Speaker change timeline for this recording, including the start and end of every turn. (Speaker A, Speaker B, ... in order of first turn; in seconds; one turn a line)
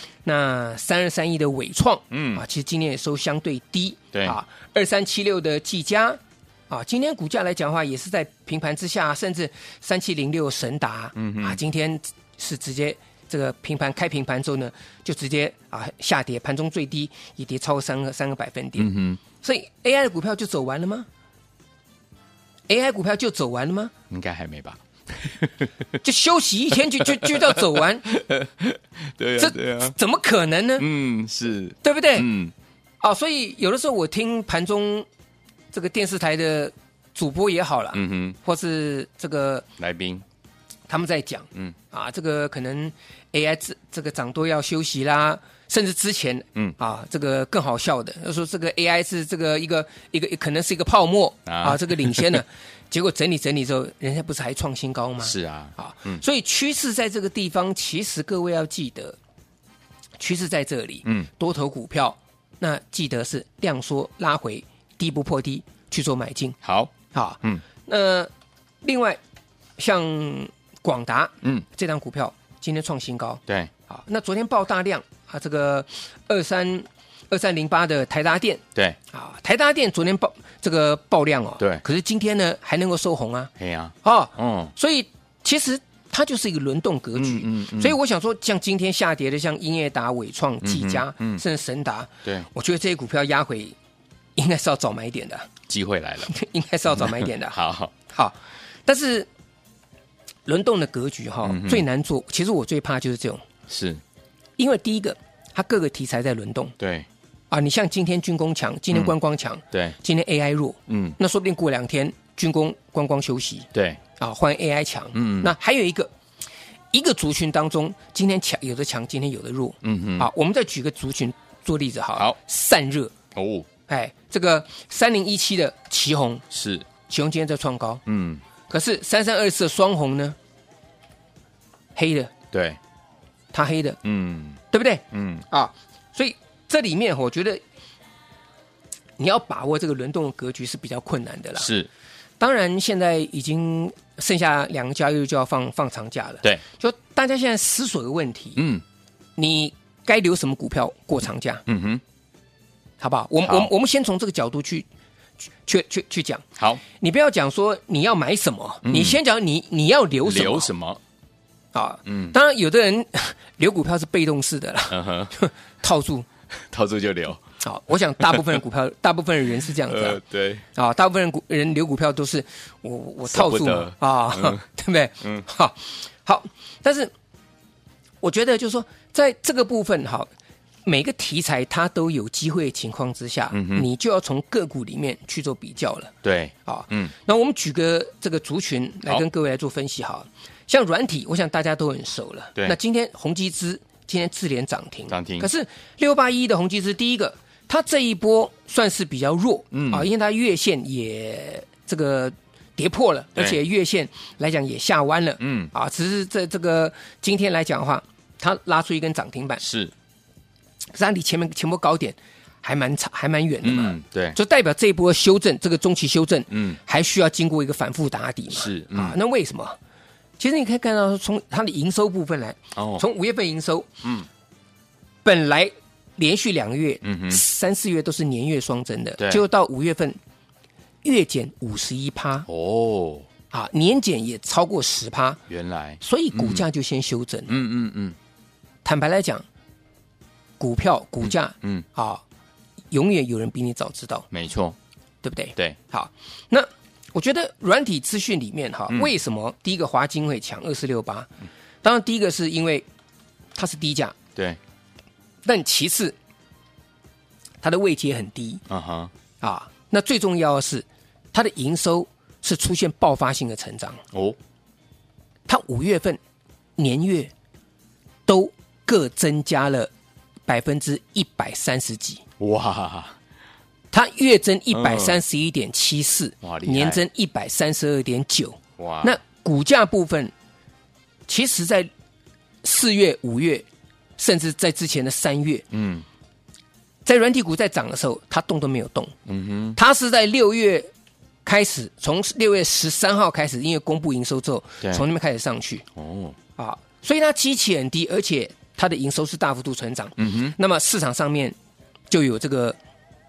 Speaker A: 0.2-21.1
Speaker B: 2.1-2.4
Speaker B: 11.2-11.6
Speaker B: 18.8-19.2
Speaker A: 22.7-23.9
Speaker B: 24.1-25.7
Speaker A: 26.0-28.1
Speaker B: 27.0-29.9
Speaker A: 29.4-30.9
Speaker B: 30.8-32.5
Speaker A: 31.8-32.3
Speaker A: 33.0-35.1
Speaker A: 35.7-39.7
Speaker B: 37.9-38.4
Speaker B: 39.8-40.2
Speaker A: 40.9-59.2
Speaker B: 51.5-52.4
Speaker B: 55.2-56.2
Speaker A: 60.2-66.6
Speaker B: 66.6-67.6
Speaker A: 67.1-68.3
Speaker A: 68.8-69.2
Speaker A: 69.8-83.5
Speaker B: 83.6-84.7
Speaker A: 84.0-93.8
Speaker B: 87.2-88.0
Speaker B: 90.6-91.4
Speaker A: 94.3-95.5
Speaker B: 95.7-96.3
Speaker A: 96.3-97.6
Speaker B: 97.0-97.9
Speaker A: 98.1-99.3
Speaker A: 100.5-103.4
Speaker B: 101.4-101.8
Speaker B: 103.7-104.0
Speaker A: 104.6-106.8
Speaker B: 106.8-107.1
Speaker A: 107.5-116.1
Speaker B: 110.9-111.2
Speaker B: 113.7-114.0
Speaker B: 115.1-115.5
Speaker A: 116.9-123.1
Speaker B: 119.8-120.3
Speaker B: 123.3-123.7
Speaker A: 123.9-126.4
Speaker B: 126.5-126.8
Speaker A: 127.1-128.0
Speaker B: 128.1-128.4
Speaker A: 128.7-130.4
Speaker A: 131.9-132.3
Speaker B: 132.5-132.8
Speaker A: 133.5-134.0
Speaker B: 134.0-134.6
Speaker A: 134.7-137.6
Speaker B: 135.1-135.4
Speaker A: 139.2-141.7
Speaker B: 141.6-141.9
Speaker A: 142.4-148.6
Speaker B: 148.6-148.8
Speaker A: 149.4-151.6
Speaker B: 151.7-152.0
Speaker A: 153.0-154.9
Speaker B: 153.4-153.7
Speaker A: 155.7-160.7
Speaker B: 156.6-156.8
Speaker B: 158.8-159.2
Speaker B: 160.2-161.0
Speaker A: 161.7-166.2
Speaker B: 162.1-162.3
Speaker B: 164.9-165.3
Speaker B: 166.7-167.4
Speaker A: 167.6-170.2
Speaker B: 168.2-168.6
Speaker B: 169.9-170.6
Speaker A: 170.7-177.1
Speaker B: 173.3-174.6
Speaker A: 178.2-180.3
Speaker A: 180.8-186.1
Speaker B: 183.5-183.8
Speaker B: 186.2-187.1
Speaker A: 186.6-209.6
Speaker B: 195.1-195.5
Speaker B: 199.7-200.1
Speaker B: 205.4-205.7
Speaker B: 209.6-209.9
Speaker A: 210.9-219.8
Speaker B: 213.6-214.4
Speaker B: 216.5-216.8
Speaker B: 218.5-219.2
Speaker A: 220.4-223.9
Speaker B: 222.8-223.0
Speaker A: 225.2-230.2
Speaker B: 227.0-227.4
Speaker A: 231.0-232.5
Speaker B: 232.5-233.2
Speaker A: 233.5-235.4
Speaker B: 235.5-236.6
Speaker A: 236.0-237.5
Speaker B: 237.5-238.2
Speaker A: 238.8-239.4
Speaker A: 240.6-242.2
Speaker A: 242.9-244.3
Speaker B: 244.3-244.8
Speaker A: 245.2-251.3
Speaker A: 251.8-252.8
Speaker A: 253.5-254.2
Speaker A: 255.4-256.1
Speaker A: 257.6-258.6
Speaker B: 258.7-259.1
Speaker A: 259.4-264.0
Speaker A: 265.5-266.2
Speaker A: 266.8-267.3
Speaker A: 268.2-269.9
Speaker A: 270.5-272.2
Speaker B: 272.4-273.1
Speaker A: 273.9-280.3
Speaker B: 274.7-275.2
Speaker B: 276.4-277.0
Speaker B: 278.8-279.1
Speaker A: 281.3-281.9
Speaker A: 282.6-283.6
Speaker A: 284.2-285.6
Speaker B: 285.7-286.0
Speaker A: 287.0-289.1
Speaker B: 289.3-289.8
Speaker A: 289.7-290.9
Speaker A: 291.4-295.8
Speaker B: 296.0-296.4
Speaker A: 296.6-301.6
Speaker B: 300.2-300.5
Speaker A: 302.1-302.8